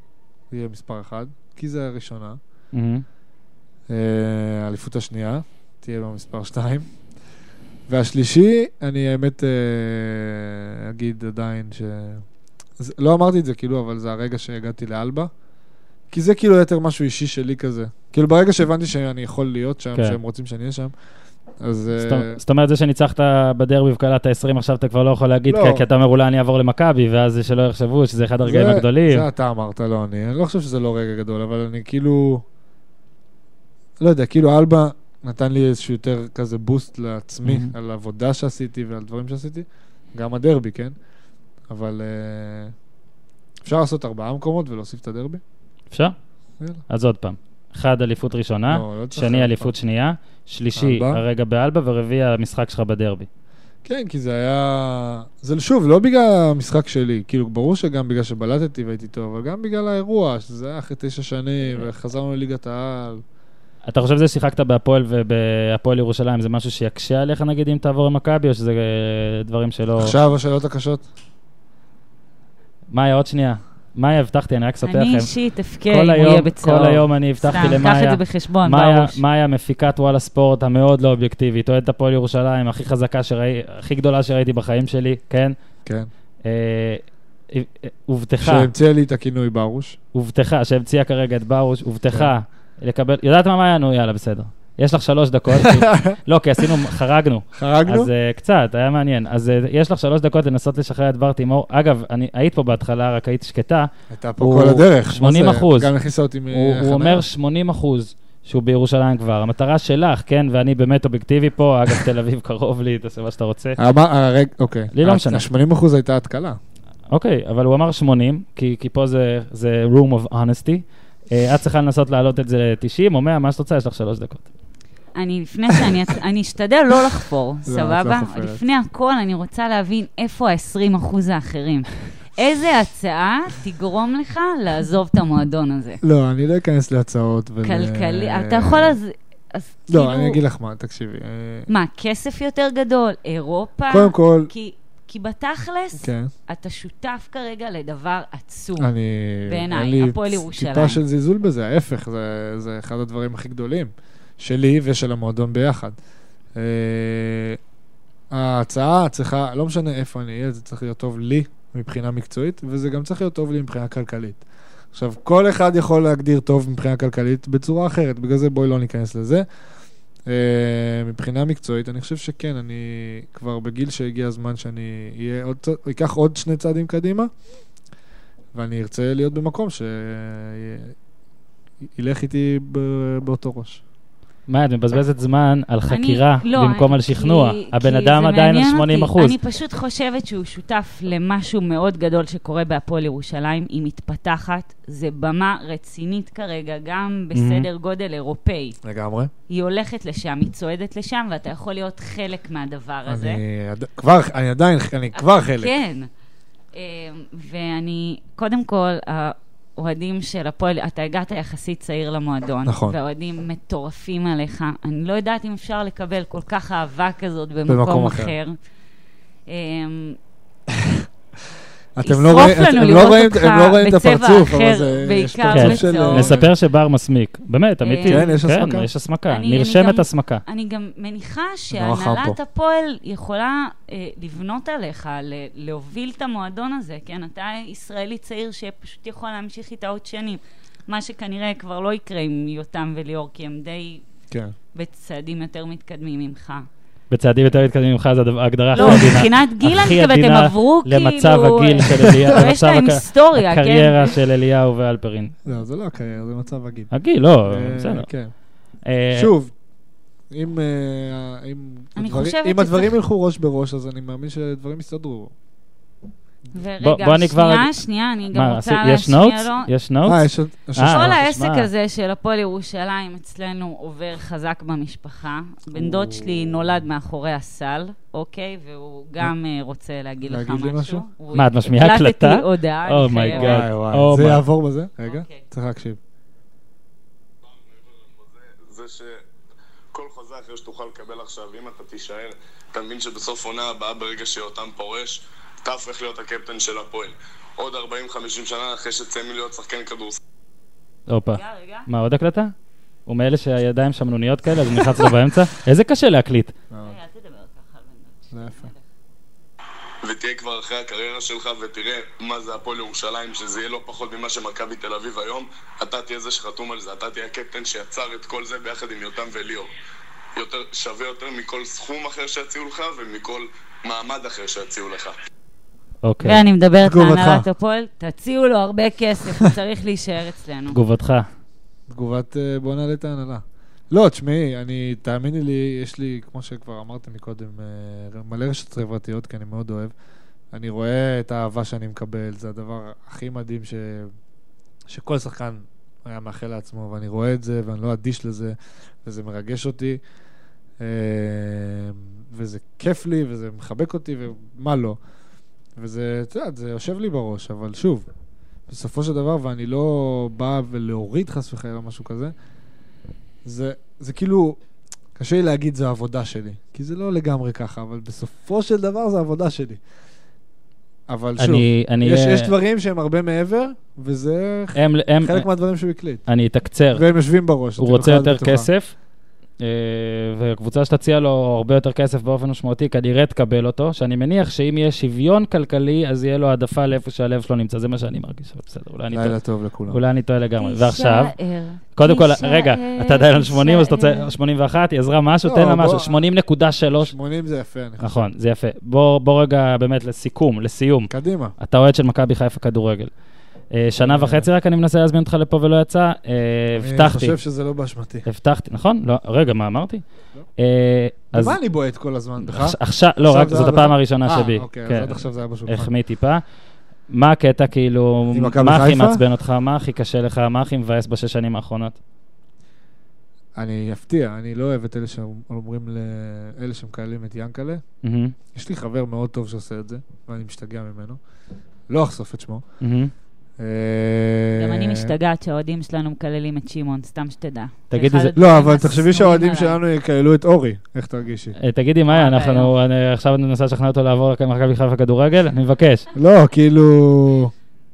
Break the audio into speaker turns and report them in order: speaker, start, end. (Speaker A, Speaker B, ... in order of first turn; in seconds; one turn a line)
Speaker A: 0.5-2.4
Speaker B: 2.7-3.0
Speaker A: 3.9-6.8
Speaker A: 7.9-12.2
Speaker A: 12.8-15.3
Speaker A: 16.1-20.9
Speaker A: 21.6-22.4
Speaker B: 21.9-29.2
Speaker A: 25.5-25.9
Speaker A: 28.4-32.4
Speaker A: 34.0-40.9
Speaker B: 37.4-37.7
Speaker A: 41.7-42.7
Speaker A: 43.6-45.4
Speaker B: 46.9-53.3
Speaker A: 48.7-49.7
Speaker A: 50.7-51.2
Speaker A: 53.8-63.2
Speaker B: 63.9-70.2
Speaker A: 70.0-71.0
Speaker B: 72.9-75.3
Speaker C: 74.8-79.2
Speaker B: 75.9-85.5
Speaker B: 86.4-88.7
Speaker A: 88.4-90.0
Speaker B: 90.1-105.9
Speaker A: 95.5-96.7
Speaker A: 97.5-98.1
Speaker A: 104.1-107.2
Speaker B: 106.5-113.8
Speaker A: 113.8-116.6
Speaker B: 114.9-115.5
Speaker B: 117.1-124.5
Speaker C: 125.1-136.0
Speaker A: 127.7-128.6
Speaker A: 136.0-139.0
Speaker C: 137.6-140.4
Speaker A: 139.9-141.7
Speaker C: 141.7-148.9
Speaker A: 143.9-144.5
Speaker A: 146.0-146.3
Speaker A: 148.8-155.9
Speaker C: 149.5-151.0
Speaker A: 156.6-157.6
Speaker A: 158.3-164.4
Speaker A: 164.9-169.4
Speaker A: 170.2-177.3
Speaker A: 178.5-180.9
Speaker A: 181.9-183.8
Speaker B: 184.5-189.3
Speaker C: 185.9-198.8
Speaker B: 197.3-197.7
Speaker A: 198.8-199.3
Speaker C: 199.5-203.4
Speaker A: 203.1-205.7
Speaker C: 205.1-206.1
Speaker C: 206.7-218.6
Speaker A: 212.7-212.9
Speaker A: 217.7-218.3
Speaker C: 219.5-220.2
Speaker A: 220.7-221.1
Speaker A: 221.9-226.5
Speaker C: 222.0-226.4
Speaker B: 225.5-230.4
Speaker C: 227.8-228.4
Speaker A: 228.1-228.9
Speaker C: 229.3-244.0
Speaker A: 231.7-232.4
Speaker C: 244.7-246.7
Speaker B: 247.1-255.3
Speaker C: 248.8-254.2
Speaker A: 248.8-249.0
Speaker A: 255.4-256.9
Speaker B: 256.9-258.1
Speaker A: 257.5-258.3
Speaker B: 258.9-259.3
Speaker A: 259.1-259.5
Speaker A: 260.3-265.3
Speaker C: 261.9-263.0
Speaker C: 266.5-269.7
Speaker B: 266.8-267.7
Speaker B: 268.3-270.2
Speaker A: 270.0-271.2
Speaker B: 270.8-271.7
Speaker C: 270.8-283.6
Speaker A: 275.7-276.6
Speaker A: 280.2-281.1
Speaker B: 281.3-284.4
Speaker A: 283.3-286.0
Speaker C: 285.0-285.4
Speaker D: 287.4-289.2
Speaker D: 289.9-300.2
Speaker B: 301.1-302.5
Speaker C: 301.3-301.9
Speaker B: 303.1-306.5
Speaker A: 306.7-307.0
Speaker C: 306.8-308.8
Speaker A: 308.3-308.7
Speaker D: 310.0-319.7
Speaker D: 320.4-325.1
Speaker B: 326.0-326.4
Speaker C: 326.2-330.8
Speaker A: 326.8-327.4
Speaker B: 330.7-331.2
Speaker A: 331.9-339.9
Speaker A: 340.5-344.1
Speaker A: 344.9-350.0
Speaker A: 350.8-355.0
Speaker A: 355.8-358.1
Speaker A: 358.7-362.3
Speaker A: 363.4-364.6
Speaker A: 365.1-369.8
Speaker A: 371.1-376.2
Speaker B: 371.4-372.5
Speaker B: 374.7-375.4
Speaker B: 376.3-377.0
Speaker A: 376.9-378.7
Speaker B: 377.8-378.9
Speaker B: 379.6-389.4
Speaker A: 389.1-390.0
Speaker B: 389.9-391.3
Speaker C: 390.6-394.3
Speaker B: 391.9-397.1
Speaker A: 395.4-396.2
Speaker A: 397.0-398.3
Speaker B: 398.0-403.1
Speaker A: 401.1-401.6
Speaker B: 403.7-407.4
Speaker A: 404.0-404.5
Speaker A: 406.8-408.2
Speaker B: 408.2-410.0
Speaker B: 410.6-411.6
Speaker A: 411.3-415.9
Speaker B: 412.4-416.4
Speaker B: 417.1-422.0
Speaker A: 418.3-419.2
Speaker A: 423.5-427.8
Speaker B: 428.0-428.3
Speaker A: 428.5-431.2
Speaker A: 431.9-432.6
Speaker B: 432.8-433.1
Speaker A: 433.6-435.1
Speaker C: 434.6-439.8
Speaker B: 437.9-438.3
Speaker A: 438.3-441.6
Speaker B: 441.6-446.1
Speaker C: 442.1-442.7
Speaker A: 446.1-447.5